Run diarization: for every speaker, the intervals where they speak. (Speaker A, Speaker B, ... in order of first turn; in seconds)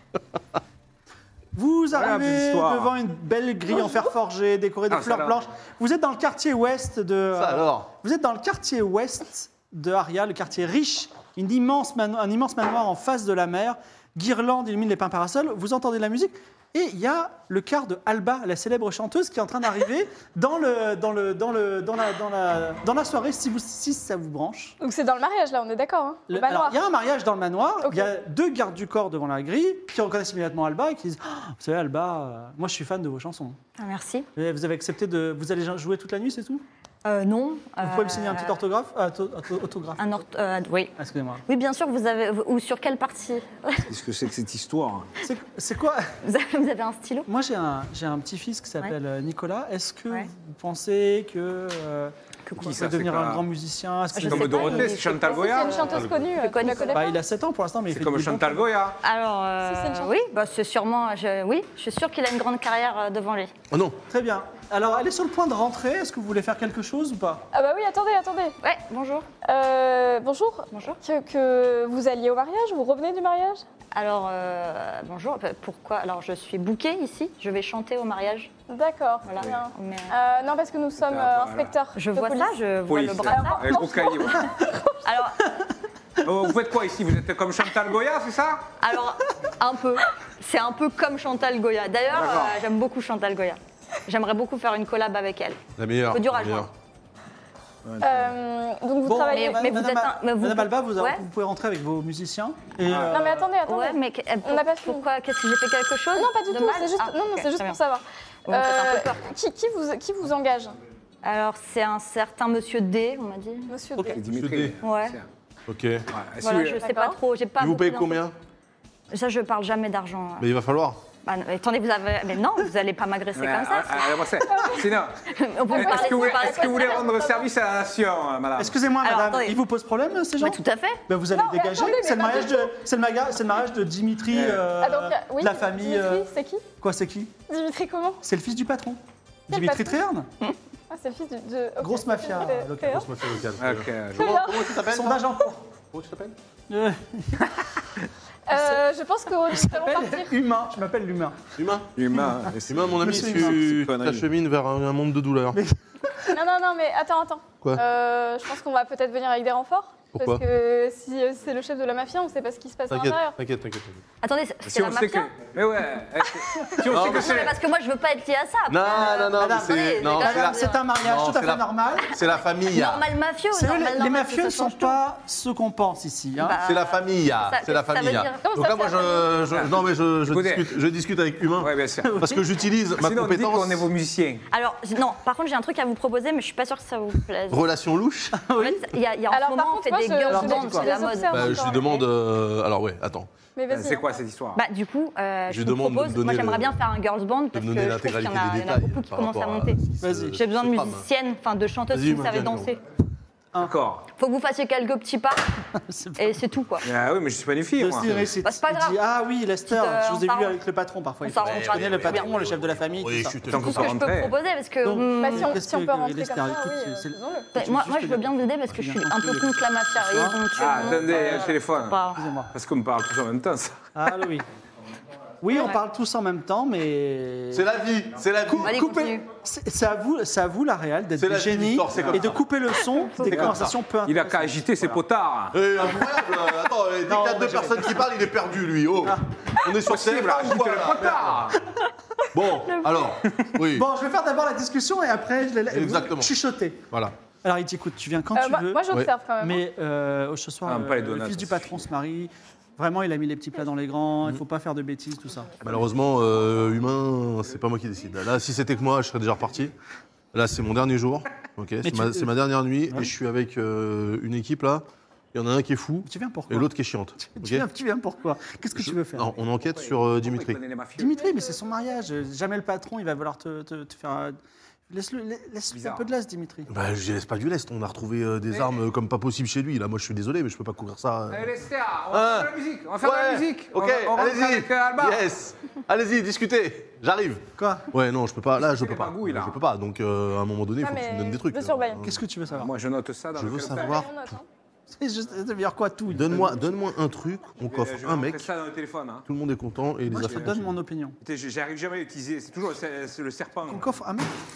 Speaker A: 1.5-24.8, 26.3-33.6, 34.3-36.6, 37.8-40.1, 41.0-41.4, 45.2-46.1, 47.3-55.1, 56.9-58.7, 64.1-67.4, 99.0-103.4, 128.6-136.3, 136.8-137.3, 138.2-140.3, 141.8-143.1, 144.9-145.6, 146.7-147.6, 148.5-148.8, 149.5-151.4, 153.0-153.6, 155.5-156.3, 168.9-172.2, 173.5-176.6, 182.0-182.4, 188.3-188.9, 190.3-190.9, 200.0-200.4, 205.7-206.5, 207.8-213.4, 214.8-221.5, 222.1-222.5, 223.9-224.4, 225.4-227.7, 228.5-235.0, 237.1-238.1, 239.0-239.3, 243.6-246.8, 247.4-248.8, 249.4-255.5, 261.8-262.3, 266.0-269.3, 271.0-274.4, 274.9-276.7, 287.6-287.9, 292.0-292.7, 294.9-296.8, 300.1-301.2, 303.7-304.3
Speaker B: 1.9-2.9, 4.9-5.4, 43.9-45.1, 52.6-53.4, 54.2-55.9, 57.9-59.0, 81.0-81.7, 82.9-84.5, 86.2-88.7, 92.1-92.6, 97.8-98.3, 102.8-103.1, 114.0-115.2, 116.1-116.8, 123.3-128.8, 134.3-134.7, 143.6-144.4, 151.9-154.2, 164.6-167.6, 180.3-180.7, 181.6-182.1, 183.0-184.4, 193.7-194.6, 203.6-204.1, 206.8-208.1, 213.5-214.3, 220.6-222.0, 222.5-224.2, 231.9-232.2, 233.3-235.6, 239.8-241.6, 250.7-251.8, 269.6-271.3, 275.7-276.1, 281.3-285.2, 288.6-289.6, 292.5-294.1, 297.6-299.2, 300.2-300.5, 301.2-303.9
Speaker C: 7.3-7.9, 56.0-56.3, 63.7-64.0, 95.8-96.7, 114.2-114.7, 115.7-116.1, 117.6-118.3, 120.4-121.0, 142.8-145.3, 145.9-146.3, 151.6-152.0, 152.7-155.6, 160.1-160.4, 162.9-164.0, 166.9-167.5, 168.7-173.1, 176.6-183.9, 187.5-188.4, 191.3-193.3, 195.5-196.8, 197.5-201.1, 201.9-202.7, 211.4-214.1, 227.5-228.8, 231.2-232.4, 233.3-233.7, 235.5-241.5, 242.3-243.9, 245.7-246.3, 255.6-259.7, 260.3-267.6, 268.8-270.6, 276.7-281.5, 282.1-292.2, 293.3-294.4, 296.1-298.5, 299.3-300.7
Speaker D: 24.8-26.8, 27.8-28.1, 55.2-57.1, 59.6-60.1, 67.5-68.5, 69.4-73.6, 78.7-82.5, 83.2-84.9, 98.0-99.7, 103.1-105.0, 106.1-110.7, 113.7-114.2, 116.7-117.2, 124.4-124.9, 125.7-127.5, 131.3-132.7, 134.8-136.6, 137.5-138.2, 139.5-140.0, 140.9-143.1, 144.2-144.7, 148.5-150.3, 156.3-163.3, 189.3-192.1, 193.6-194.2, 215.2-217.5, 248.3-249.6, 271.2-271.8, 290.8-292.0, 293.7-294.4
Speaker E: 33.8-34.3, 37.0-38.6, 40.0-40.9, 41.5-43.9, 46.2-47.3, 52.5-52.7, 54.1-57.1, 59.0-63.5, 68.6-69.2, 70.7-71.0, 73.9-78.5, 79.2-80.1, 81.9-84.5, 85.0-85.4, 88.8-95.6, 96.1-96.7, 99.3-101.2, 103.6-107.8, 108.5-109.3, 111.2-113.7, 114.8-115.2, 116.4-118.2, 119.1-120.5, 121.2-124.3, 125.3-127.1, 129.0-129.6, 130.4-131.0, 164.2-165.3, 166.5-170.8, 172.6-175.0, 176.4-176.9, 177.5-179.2, 184.5-187.6, 188.6-191.6, 194.5-199.8, 200.3-202.8, 204.2-205.4, 206.2-206.8, 208.4-209.0, 209.7-210.6, 211.2-212.4, 213.5-215.6, 217.5-222.2, 225.5-225.8, 228.6-229.3